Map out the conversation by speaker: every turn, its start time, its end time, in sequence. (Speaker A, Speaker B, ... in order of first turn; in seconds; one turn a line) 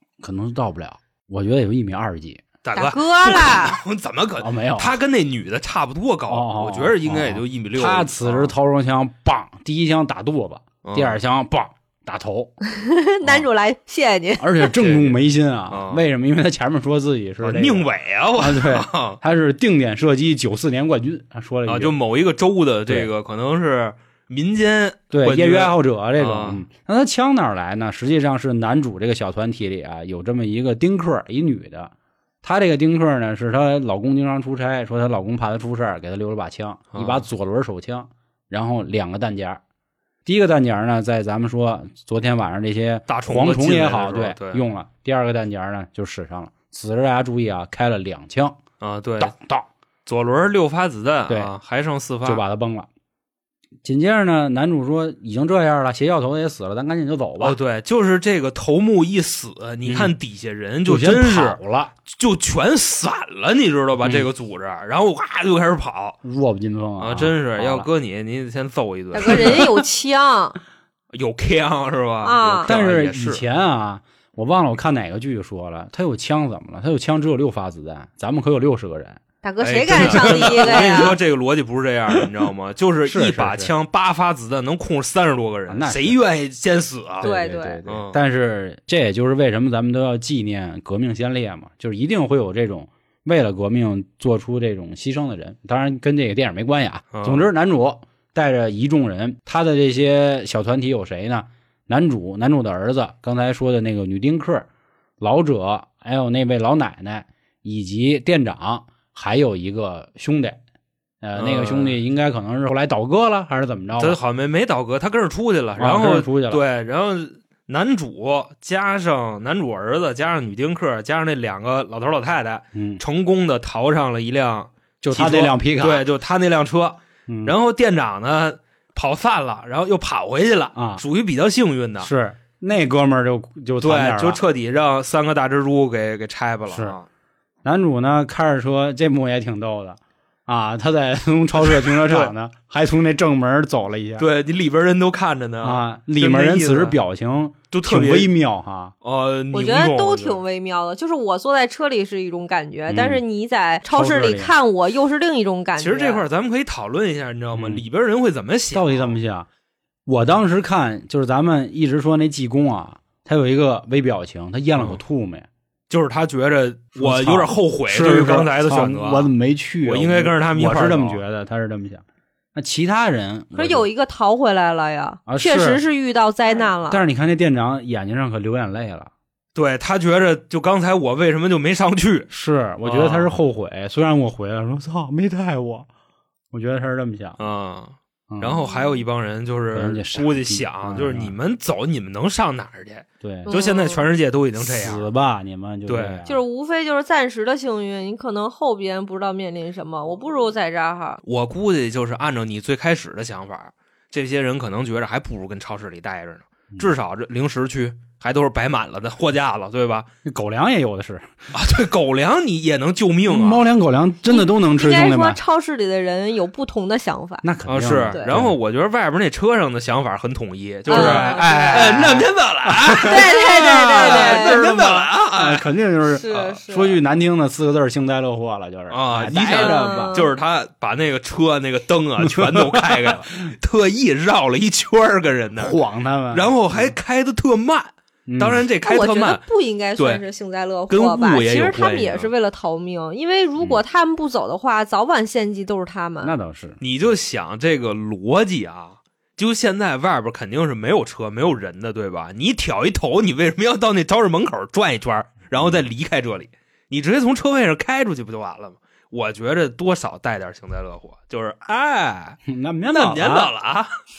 Speaker A: 0.2-2.4
Speaker B: 2.6-8.5
Speaker C: 2.7-3.8
Speaker A: 4.4-5.0
Speaker A: 6.3-12.5
Speaker B: 10.8-11.2
Speaker C: 12.6-14.7
Speaker A: 14.4-21.9
Speaker B: 14.7-15.2
Speaker B: 15.7-16.0
Speaker B: 17.4-19.2
Speaker B: 21.6-26.6
Speaker A: 25.1-39.6
Speaker B: 36.9-37.2
Speaker A: 40.2-48.6
Speaker B: 43.1-44.6
Speaker B: 48.8-49.4
Speaker A: 49.2-49.7
Speaker B: 50.0-52.4
Speaker A: 52.2-52.9
Speaker A: 53.8-57.6
Speaker B: 57.4-66.2
Speaker A: 59.8-60.1
Speaker A: 60.9-61.9
Speaker A: 64.0-64.3
Speaker A: 66.2-67.9
Speaker B: 67.0-69.7
Speaker C: 69.1-70.6
Speaker A: 69.3-69.6
Speaker B: 71.1-73.4
Speaker C: 72.2-72.7
Speaker A: 72.6-79.2
Speaker C: 79.4-81.2
Speaker B: 79.6-87.3
Speaker A: 79.9-81.1
Speaker A: 83.0-83.7
Speaker A: 85.7-86.2
Speaker A: 87.2-104.7
Speaker C: 87.2-87.8
Speaker B: 87.9-88.2
Speaker B: 97.1-97.5
Speaker A: 105.2-110.6
Speaker A: 111.2-114.2
Speaker B: 111.3-112.0
Speaker B: 114.0-132.1
Speaker A: 115.8-116.6
Speaker A: 122.7-123.0
Speaker A: 125.0-126.0
Speaker A: 127.3-127.5
Speaker A: 130.7-131.0
Speaker A: 132.0-134.4
Speaker B: 133.8-137.1
Speaker A: 136.7-136.9
Speaker A: 137.6-144.2
Speaker B: 141.8-142.3
Speaker B: 144.2-147.0
Speaker A: 145.6-148.9
Speaker B: 147.7-148.3
Speaker B: 149.0-150.4
Speaker C: 149.5-156.2
Speaker A: 152.9-153.2
Speaker A: 153.9-154.5
Speaker B: 155.8-159.2
Speaker A: 157.5-157.8
Speaker A: 158.7-159.5
Speaker A: 160.1-165.5
Speaker B: 165.9-169.3
Speaker A: 166.9-172.0
Speaker B: 169.8-171.2
Speaker A: 172.5-173.9
Speaker C: 173.5-177.0
Speaker A: 175.3-175.8
Speaker A: 176.9-179.1
Speaker B: 179.5-182.3
Speaker A: 182.3-185.9
Speaker B: 182.8-183.4
Speaker A: 186.5-187.4
Speaker B: 187.4-195.1
Speaker A: 188.3-188.7
Speaker A: 189.7-191.3
Speaker A: 193.2-193.5
Speaker C: 193.4-194.1
Speaker A: 194.6-196.4
Speaker B: 195.9-196.2
Speaker C: 196.2-201.2
Speaker B: 201.2-210.1
Speaker A: 210.2-211.3
Speaker B: 211.5-213.6
Speaker A: 213.3-215.4
Speaker C: 214.3-217.4
Speaker A: 217.4-218.6
Speaker B: 217.7-225.6
Speaker C: 220.9-222.2
Speaker A: 220.9-230.2
Speaker C: 223.0-224.6
Speaker C: 226.1-227.0
Speaker B: 228.9-235.8
Speaker C: 229.5-230.3
Speaker A: 232.2-233.3
Speaker A: 235.6-236.9
Speaker B: 236.3-239.4
Speaker A: 238.3-238.6
Speaker C: 238.8-246.3
Speaker B: 240.9-242.3
Speaker A: 246.2-246.8
Speaker B: 246.8-262.4
Speaker A: 262.5-263.5
Speaker B: 262.9-263.9